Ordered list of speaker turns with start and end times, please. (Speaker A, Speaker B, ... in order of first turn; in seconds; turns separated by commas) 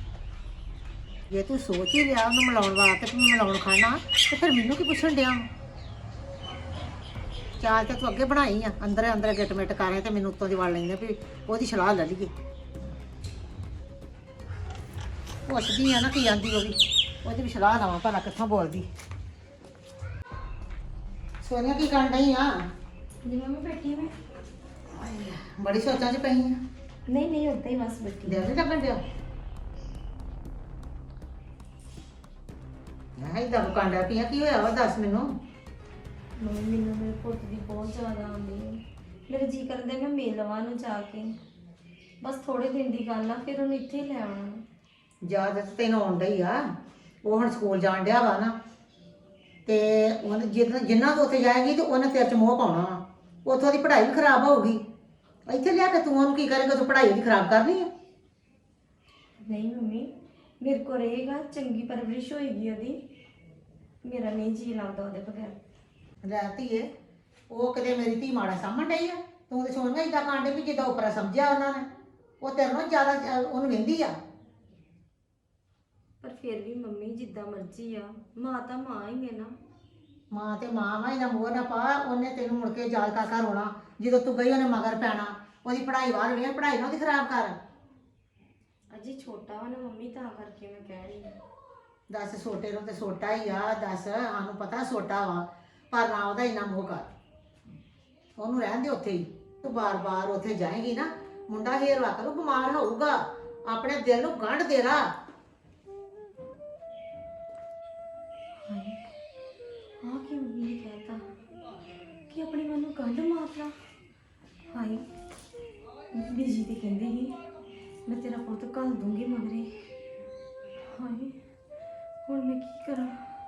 Speaker A: 1.3-5.5, Speaker A: 7.6-12.3, Speaker A: 15.5-18.9, Speaker A: 21.4-22.5, Speaker B: 23.2-24.1, Speaker A: 24.9-26.6, Speaker B: 27.1-28.5, Speaker A: 28.3-29.0, Speaker A: 33.2-35.3, Speaker B: 36.4-41.3, Speaker B: 42.2-44.6, Speaker A: 45.2-46.6, Speaker A: 47.2-48.5, Speaker A: 49.7-54.8, Speaker A: 55.5-57.9, Speaker B: 59.4-60.1, Speaker B: 60.6-63.0, Speaker B: 64.0-65.6, Speaker A: 66.2-66.9, Speaker A: 67.5-71.9, Speaker A: 72.4-74.1, Speaker B: 76.2-79.5, Speaker A: 80.3-87.6, Speaker B: 88.9-91.4, Speaker A: 92.1-97.1, Speaker A: 98.4-105.0, Speaker B: 108.7-109.0, Speaker B: 110.0-111.2, Speaker B: 112.3-113.7, Speaker B: 114.7-115.1, Speaker B: 116.1-117.4, Speaker B: 118.1-119.7, Speaker B: 120.9-121.4, Speaker B: 122.3-123.2